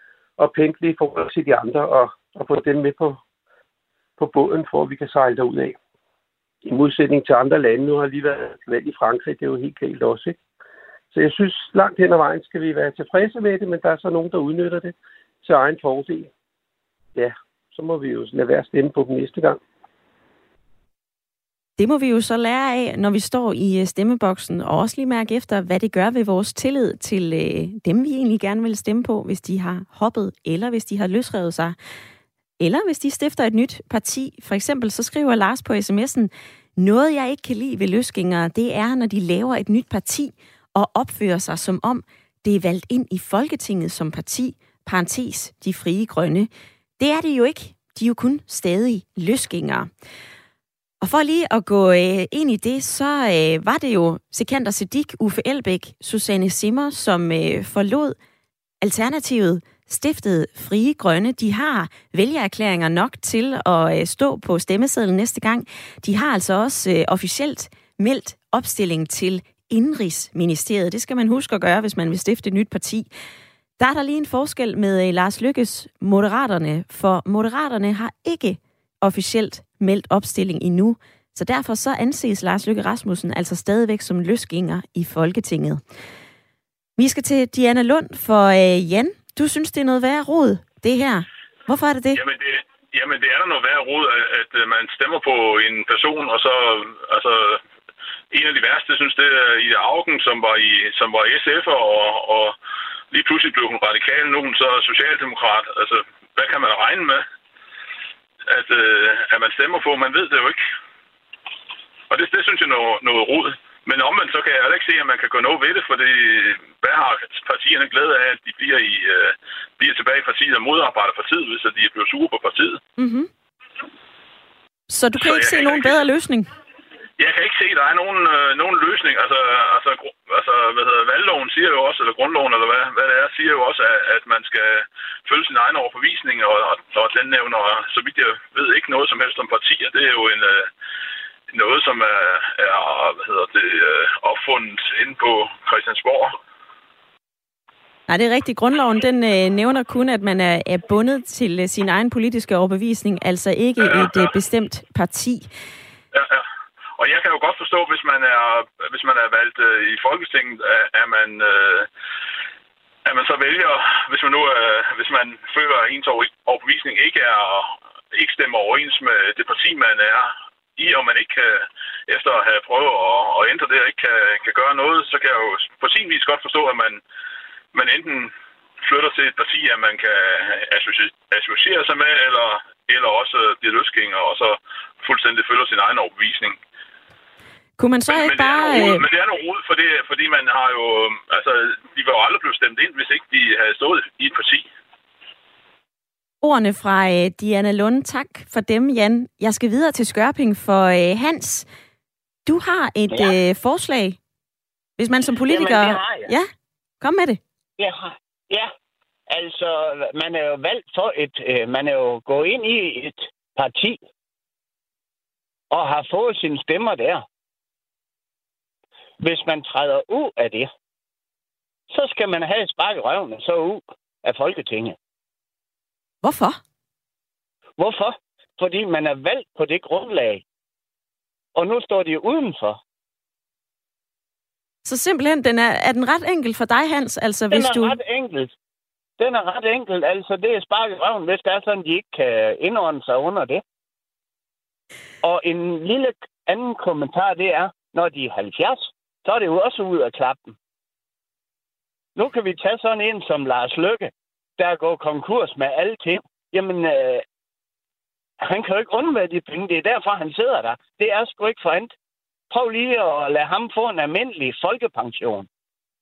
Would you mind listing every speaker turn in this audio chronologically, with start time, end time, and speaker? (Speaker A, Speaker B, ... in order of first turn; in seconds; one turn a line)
Speaker A: 0.4-3.2
Speaker A: 4.2-5.8
Speaker A: 6.6-10.4
Speaker A: 11.1-16.3
Speaker A: 17.1-19.6
Speaker B: 21.8-31.8
Speaker B: 32.6-49.9
Speaker B: 51.0-58.1
Speaker B: 58.8-73.1
Speaker B: 73.8-85.8
Speaker B: 87.0-92.2
Speaker C: 92.1-97.6
Speaker C: 98.3-102.6
Speaker C: 103.1-107.2
Speaker C: 108.5-110.6
Speaker C: 112.1-122.8
Speaker B: 123.0-123.3
Speaker B: 124.9-126.5
Speaker C: 125.2-126.0
Speaker C: 127.2-140.7
Speaker C: 141.5-146.4
Speaker B: 148.1-155.5
Speaker C: 153.8-154.3
Speaker C: 156.1-156.4
Speaker C: 157.0-161.9
Speaker C: 163.1-177.0
Speaker C: 177.7-186.6
Speaker B: 187.8-189.0
Speaker C: 188.1-194.7
Speaker B: 196.4-201.7
Speaker B: 202.5-204.2
Speaker B: 205.0-206.5
Speaker D: 205.5-206.3
Speaker B: 207.0-207.4
Speaker D: 207.8-208.7
Speaker D: 209.3-214.0
Speaker D: 215.7-217.2
Speaker D: 219.2-220.7
Speaker D: 221.9-225.0
Speaker B: 226.2-226.6
Speaker D: 227.8-230.4
Speaker D: 231.6-232.8
Speaker B: 234.8-238.0
Speaker D: 237.5-238.5
Speaker D: 239.2-243.6
Speaker D: 245.2-250.5
Speaker D: 252.2-257.2
Speaker D: 258.4-261.9
Speaker D: 262.5-265.5